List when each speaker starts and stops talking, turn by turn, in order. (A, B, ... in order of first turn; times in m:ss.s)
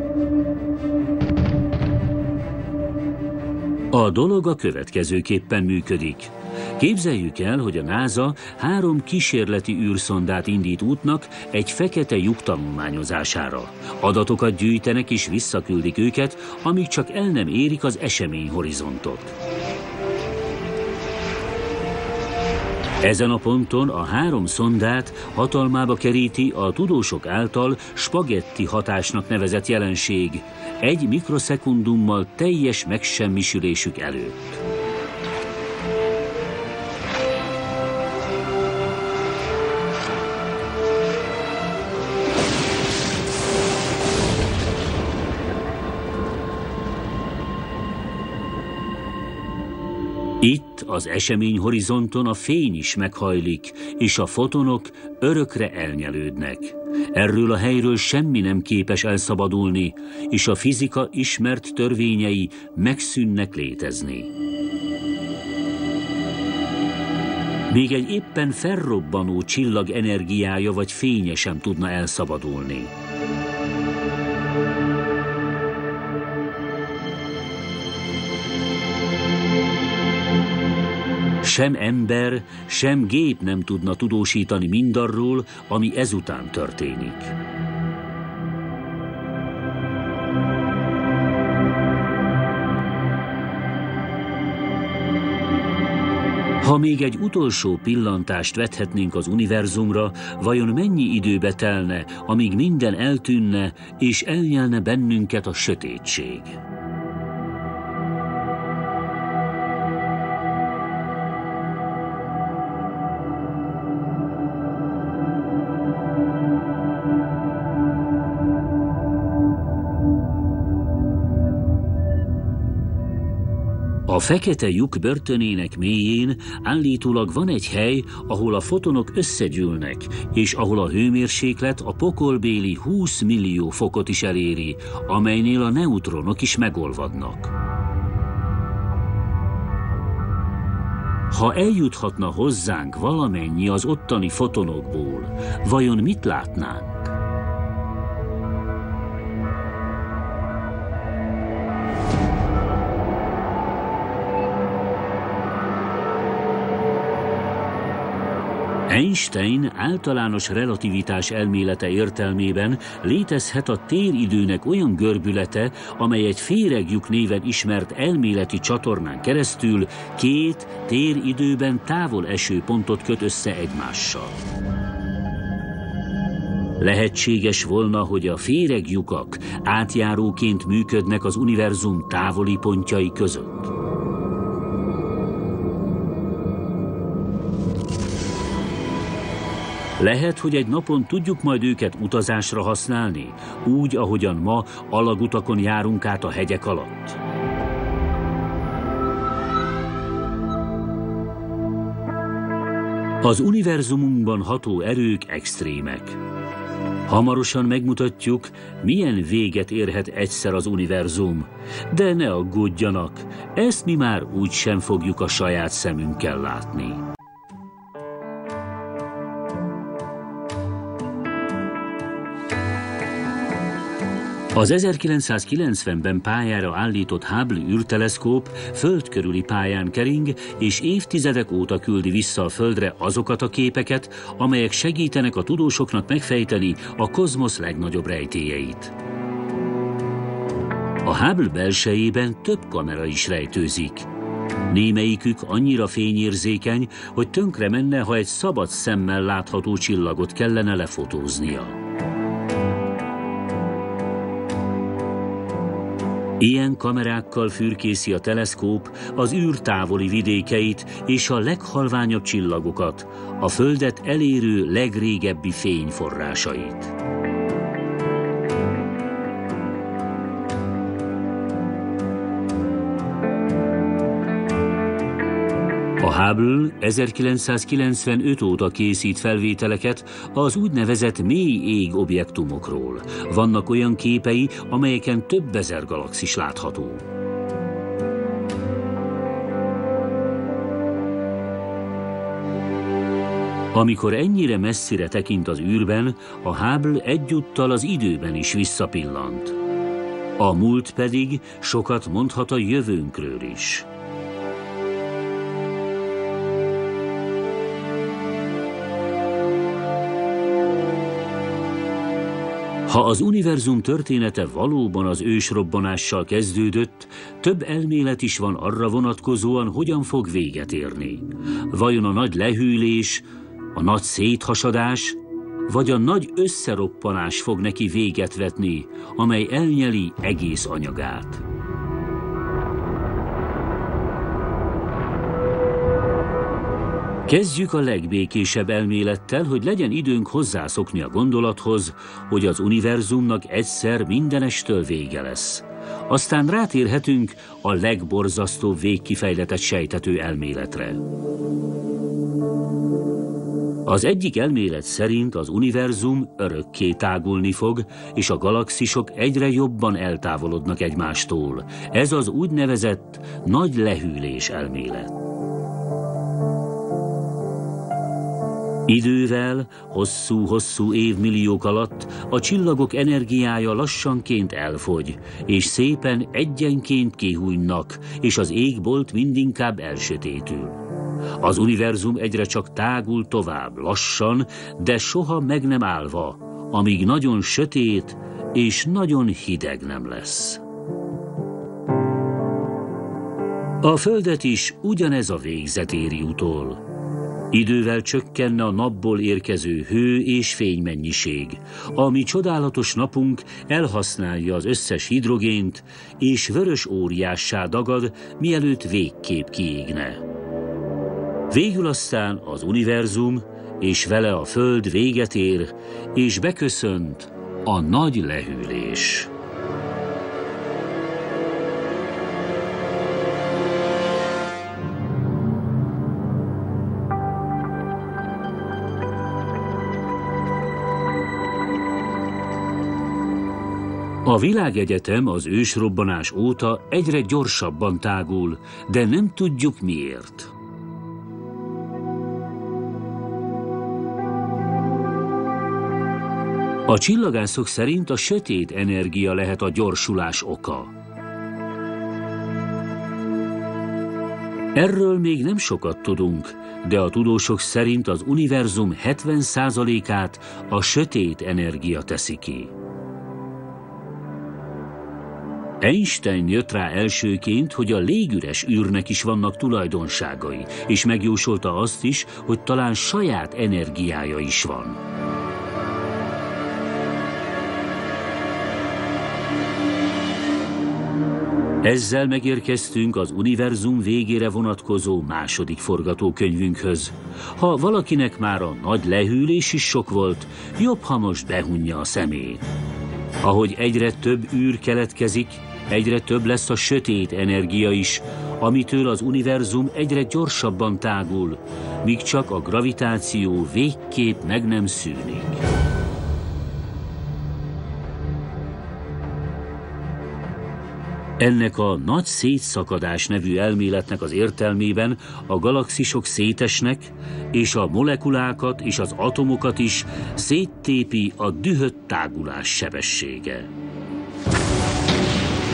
0:03.9-0:19.3 A
0:23.0-0:34.6 A
0:50.4-1:04.3 A
1:07.7-1:12.9 A
1:21.4-1:27.3 A
1:36.6-1:46.6 A
2:04.1-2:17.5 A
2:21.3-2:27.1 A
2:38.9-2:54.4 A
2:56.8-3:03.7 A
3:10.0-3:17.2 A
3:23.2-3:26.2 A
3:27.1-3:37.0 A
3:44.5-3:58.9 A
4:01.0-4:04.1 A
4:04.7-4:11.8 A
4:16.4-4:26.9 A
4:36.0-4:47.0 A
4:53.7-4:59.6 A
5:00.4-5:03.9 A
5:12.9-5:31.4 A
5:37.3-5:51.0 A
5:53.8-6:05.1 A
6:08.9-6:20.8 A
6:21.4-6:30.6 A
6:33.8-6:36.8 A
6:37.5-6:50.2 A
6:51.5-6:59.3 A
7:14.2-7:20.5 A
7:26.9-7:30.9 A
7:34.7-7:42.7 A
7:45.8-7:55.0 A
8:01.8-8:12.6 A
8:13.4-8:25.6 A
8:31.4-8:43.7 A